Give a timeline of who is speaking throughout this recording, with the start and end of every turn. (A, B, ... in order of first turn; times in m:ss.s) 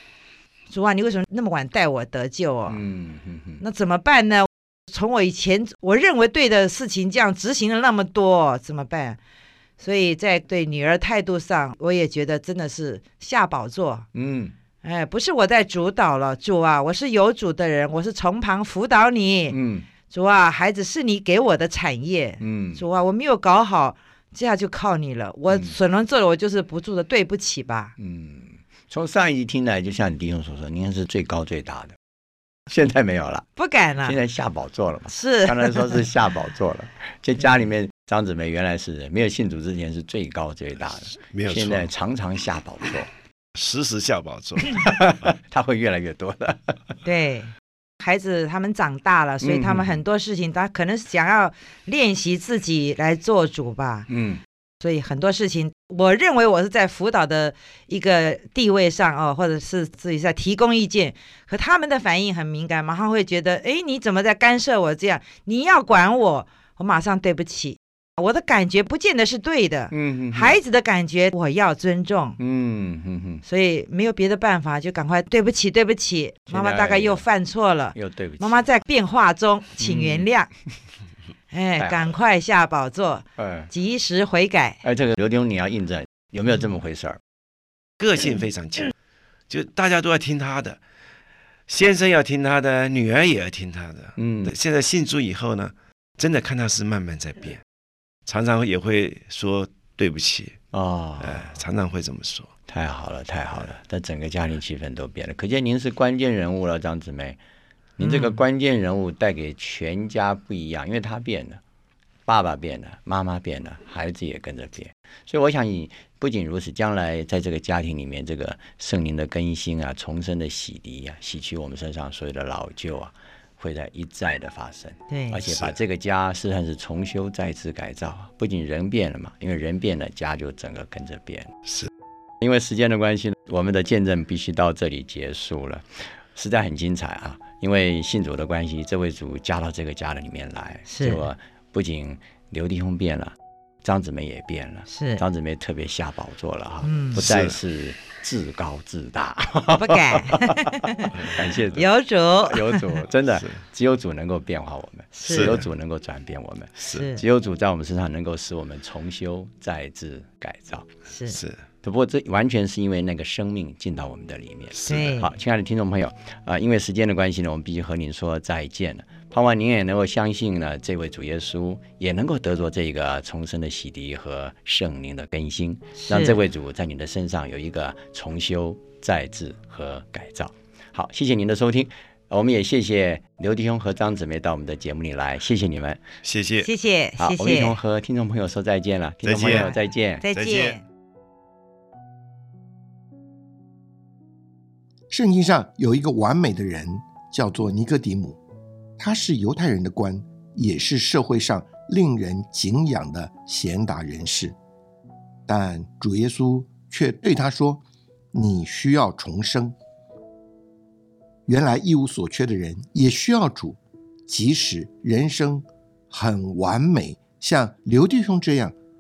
0:00.7-0:02.8 A
0:02.7-0:03.6 B
0:03.6-0:09.2 A
0:09.8-0:14.1 A
0:14.1-0:14.6 B
0:14.8-0:19.6 A
0:19.5-0:19.9 B
0:20.1-0:27.9 A
0:22.4-0:22.8 B
0:25.5-0:25.8 B
0:28.0-0:32.0 B
0:32.7-0:33.5 B
0:33.6-0:34.2 A
0:34.1-0:43.1 B
0:35.1-0:36.1 A
0:41.3-0:41.9 C
0:43.6-0:44.9 C
0:44.7-0:46.8 B
0:47.0-0:54.1 A
0:49.4-0:50.0 B
0:54.1-0:54.4 B
0:54.8-1:12.4 A
1:09.9-1:10.6 B
1:12.4-1:13.4 B
1:13.4-1:20.5 A
1:16.5-1:17.3 B
1:18.0-1:18.6 B
1:19.8-1:20.3 B
1:21.5-1:24.8 A
1:21.8-1:22.2 B
1:23.4-1:23.7 B
1:24.8-1:27.2 B
1:28.0-1:28.9 C
1:29.5-1:30.8 C
1:31.7-1:37.6 C
1:34.2-1:34.5 B
1:38.3-1:40.6 C
1:40.7-1:41.6 B
1:41.2-1:42.5 C
1:42.7-1:47.4 B
1:48.0-1:51.6 B
1:48.0-1:48.4 A
1:52.3-2:11.5 B
2:05.1-2:05.4 A
2:05.5-2:05.8 C
2:12.4-2:31.8 B
2:20.9-2:21.2 A
2:24.9-2:25.2 A
2:26.8-2:27.2 A
2:27.2-2:27.6 C
2:29.7-2:33.0 A
2:32.4-2:40.9 B
2:35.1-2:35.6 A
2:35.3-2:35.6 C
2:36.8-2:37.1 C
2:36.9-2:37.2 A
2:41.1-2:41.4 A
2:41.3-2:41.6 C
2:41.8-3:06.0 B
2:44.7-2:45.1 C
2:44.9-2:45.3 A
2:56.0-2:56.4 A
3:06.2-3:06.7 C
3:06.6-3:07.8 A
3:07.2-3:10.2 B
3:09.2-3:09.7 C
3:09.4-3:10.8 A
3:10.3-3:10.8 C
3:15.1-3:18.4 D
3:19.0-3:24.6 D
3:25.5-3:29.8 D
3:31.5-3:38.8 D